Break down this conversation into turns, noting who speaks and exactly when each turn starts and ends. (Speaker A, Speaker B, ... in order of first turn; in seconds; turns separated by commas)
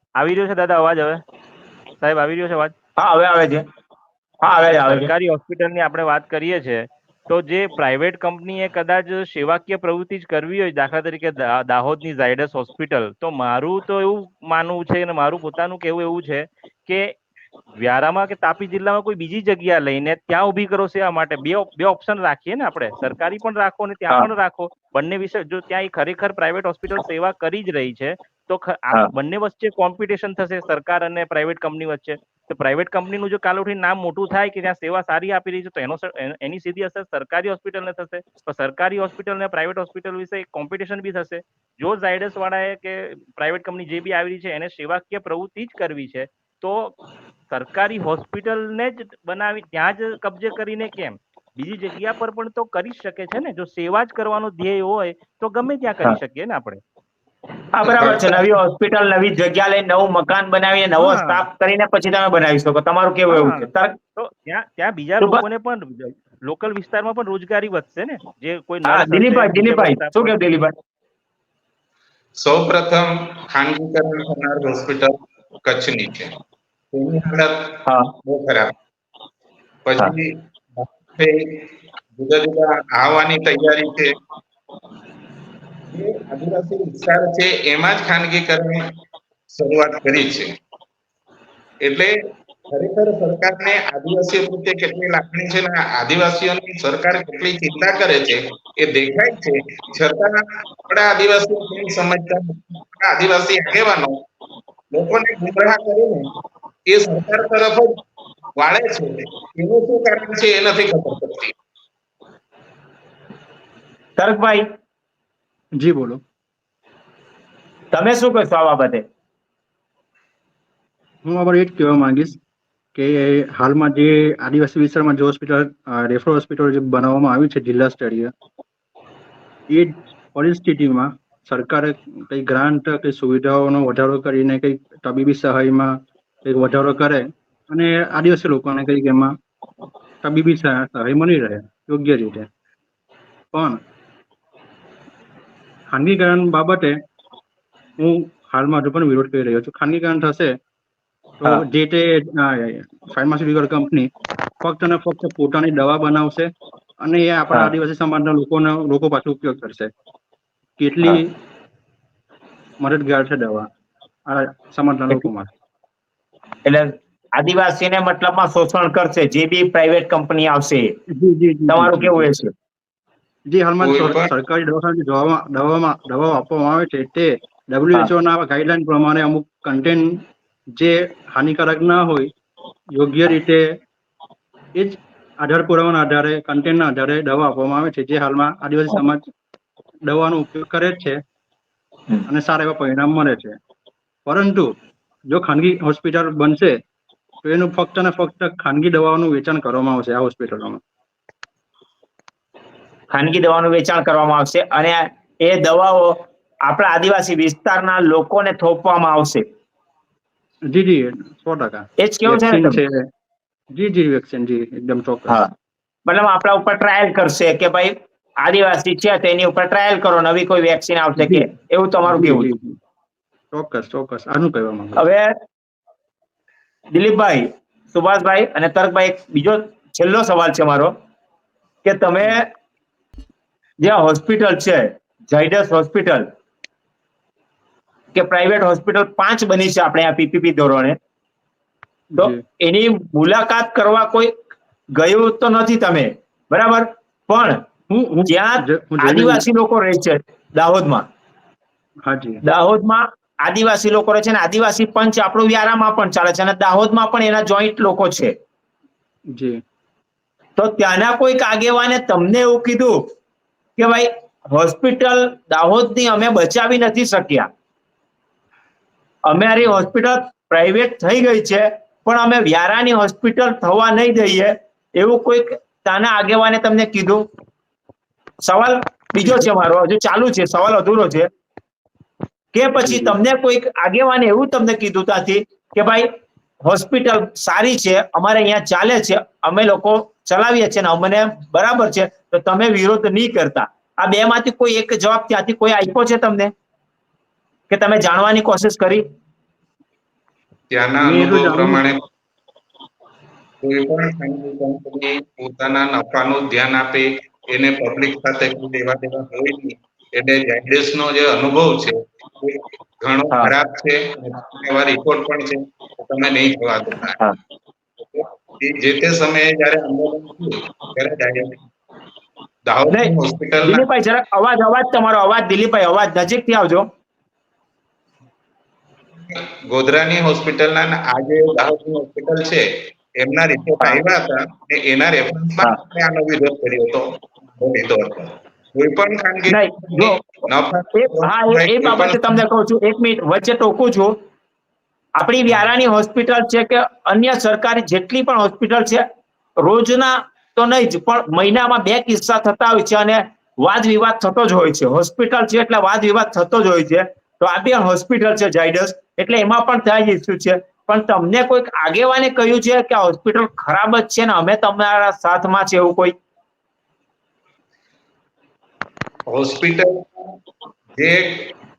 Speaker A: 0.2-1.2, Speaker A: 2.0-2.7, Speaker B: 3.0-3.6, Speaker B: 4.4-5.1, Speaker A: 4.6-17.1, Speaker A: 17.8-47.0, Speaker A: 47.5-56.8, Speaker B: 57.7-64.0, Speaker A: 57.9-58.5, Speaker A: 61.0-61.5, Speaker A: 63.3-70.4, Speaker B: 68.9-70.8, Speaker C: 72.4-76.3, Speaker C: 76.9-78.7, Speaker B: 77.9-78.1, Speaker C: 79.9-81.6, Speaker C: 82.2-84.1, Speaker C: 85.9-88.9, Speaker C: 89.5-90.5, Speaker C: 91.8-92.1, Speaker C: 92.7-104.2, Speaker C: 104.9-106.3, Speaker C: 106.9-108.0, Speaker C: 108.6-111.5, Speaker B: 114.2-114.7, Speaker D: 115.8-116.2, Speaker B: 117.9-119.0, Speaker D: 121.2-122.4, Speaker D: 122.9-128.3, Speaker D: 129.7-139.3, Speaker D: 140.2-142.5, Speaker D: 143.5-143.8, Speaker D: 145.9-147.0, Speaker D: 148.0-150.5, Speaker D: 151.4-154.1, Speaker D: 154.6-156.5, Speaker D: 157.0-159.9, Speaker D: 160.8-161.3, Speaker D: 162.8-163.7, Speaker D: 164.3-165.5, Speaker B: 166.7-170.9, Speaker D: 171.1-172.3, Speaker B: 171.7-172.5, Speaker D: 173.5-180.2, Speaker C: 173.8-174.3, Speaker D: 180.8-182.3, Speaker D: 183.0-183.7, Speaker D: 184.8-189.2, Speaker D: 190.1-191.2, Speaker D: 192.3-193.6, Speaker D: 194.3-194.7, Speaker D: 195.3-196.8, Speaker D: 197.4-200.8, Speaker B: 203.1-209.4, Speaker D: 210.7-213.1, Speaker B: 212.0-212.8, Speaker D: 213.7-215.4, Speaker B: 216.1-222.5, Speaker D: 221.2-221.5, Speaker D: 222.1-222.8, Speaker D: 223.5-225.1, Speaker B: 225.0-225.4, Speaker B: 226.9-230.9, Speaker B: 231.8-232.5, Speaker B: 233.8-236.3, Speaker B: 238.1-241.0, Speaker D: 242.2-242.4, Speaker B: 242.2-244.4, Speaker B: 244.9-247.6, Speaker D: 247.9-249.4, Speaker B: 248.3-251.1, Speaker D: 252.1-252.4, Speaker B: 252.4-258.4, Speaker D: 259.3-259.6, Speaker B: 260.6-263.1, Speaker B: 263.8-267.5, Speaker B: 269.3-277.2, Speaker B: 278.4-281.3, Speaker B: 282.5-286.1, Speaker D: 282.8-283.2, Speaker B: 286.6-296.5, Speaker B: 297.7-299.0, Speaker C: 300.7-302.0, Speaker D: 301.0-301.9, Speaker C: 303.6-317.2, Speaker C: 318.1-321.6, Speaker C: 322.7-323.9, Speaker B: 323.6-326.9, Speaker C: 329.3-342.4, Speaker B: 339.5-340.2, Speaker B: 341.0-344.2, Speaker B: 345.1-349.1, Speaker B: 349.6-366.1, Speaker C: 369.3-370.3, Speaker C: 371.0-371.5